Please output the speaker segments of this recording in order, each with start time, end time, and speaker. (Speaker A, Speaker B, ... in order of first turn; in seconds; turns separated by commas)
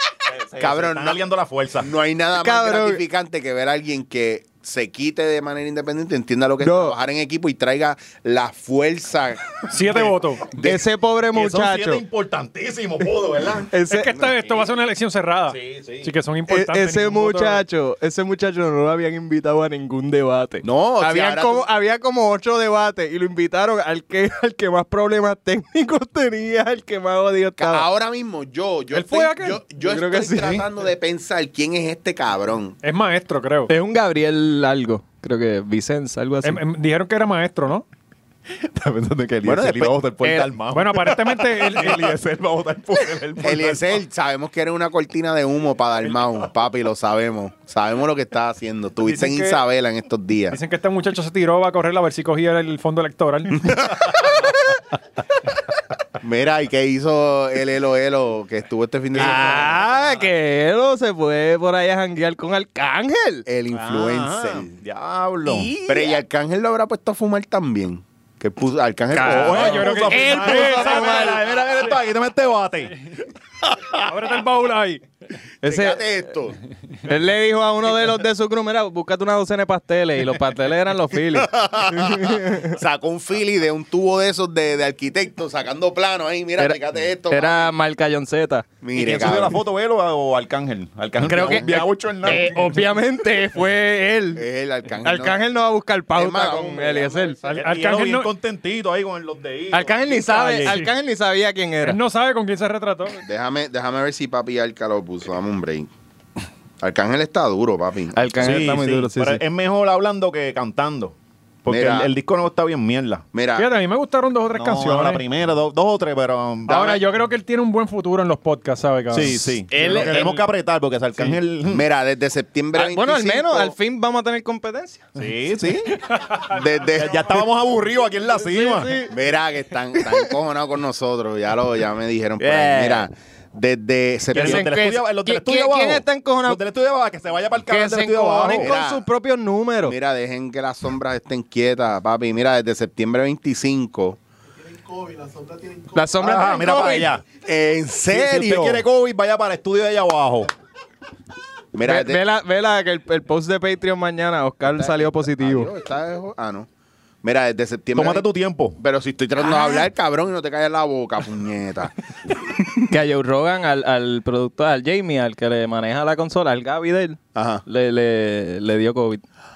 Speaker A: 0.3-1.9, Speaker B: 0.6-1.2, Speaker B: 1.8-10.8, Speaker C: 2.4-3.0, Speaker C: 6.6-7.0, Speaker D: 9.7-10.4, Speaker C: 10.6-12.0, Speaker A: 11.3-13.7, Speaker C: 13.7-14.3, Speaker D: 13.9-17.6, Speaker A: 15.5-16.1, Speaker C: 16.5-27.9, Speaker B: 20.6-21.7, Speaker B: 27.6-32.8, Speaker D: 28.9-29.6, Speaker C: 29.8-30.6, Speaker D: 32.8-33.7, Speaker C: 33.7-36.6, Speaker D: 36.4-37.9, Speaker A: 38.5-44.0, Speaker C: 39.4-40.5, Speaker D: 40.7-42.1, Speaker B: 43.4-50.6, Speaker D: 49.1-49.6, Speaker D: 50.5-53.8, Speaker B: 53.7-54.3, Speaker B: 56.2-59.8, Speaker C: 59.1-63.5, Speaker A: 59.4-60.0, Speaker B: 63.5-64.7, Speaker A: 63.7-65.7, Speaker C: 65.5-66.2, Speaker B: 65.9-70.0, Speaker C: 69.1-71.5, Speaker A: 69.1-73.1, Speaker D: 69.4-71.5, Speaker D: 74.0-75.0, Speaker C: 75.6-76.0, Speaker B: 75.6-76.6, Speaker C: 77.0-82.8, Speaker B: 81.4-87.7, Speaker C: 87.3-88.7, Speaker B: 88.8-89.6, Speaker A: 88.9-92.5, Speaker C: 91.2-94.4, Speaker B: 91.4-91.8, Speaker B: 94.4-95.4, Speaker C: 95.0-97.4, Speaker B: 96.1-97.5, Speaker D: 97.4-98.3, Speaker A: 97.5-100.8, Speaker C: 99.7-102.0, Speaker D: 101.8-103.2, Speaker B: 103.2-105.9, Speaker B: 106.8-108.2, Speaker C: 108.2-109.4, Speaker A: 108.4-113.2, Speaker B: 111.7-112.1, Speaker B: 113.3-113.7, Speaker D: 113.5-115.2, Speaker A: 114.5-116.9, Speaker B: 116.7-117.0, Speaker D: 116.7-120.4, Speaker A: 119.1-121.8, Speaker C: 119.7-120.4, Speaker B: 121.7-123.7, Speaker C: 122.8-125.1, Speaker A: 125.2-125.9, Speaker D: 126.1-126.4, Speaker B: 126.5-127.4, Speaker A: 126.9-129.0, Speaker C: 128.4-129.1, Speaker B: 129.1-134.7, Speaker C: 132.4-133.1, Speaker A: 134.3-138.7, Speaker C: 134.3-136.6, Speaker C: 137.7-139.9, Speaker B: 138.5-139.0, Speaker B: 139.8-144.2, Speaker E: 144.5-146.7, Speaker C: 145.9-147.1, Speaker A: 146.2-147.2, Speaker B: 147.4-148.8, Speaker A: 148.1-150.5, Speaker B: 151.7-152.2, Speaker C: 151.8-155.7, Speaker B: 154.7-156.7, Speaker B: 157.2-158.3, Speaker A: 157.9-158.8, Speaker B: 158.8-162.8, Speaker C: 162.9-169.2, Speaker B: 167.3-167.6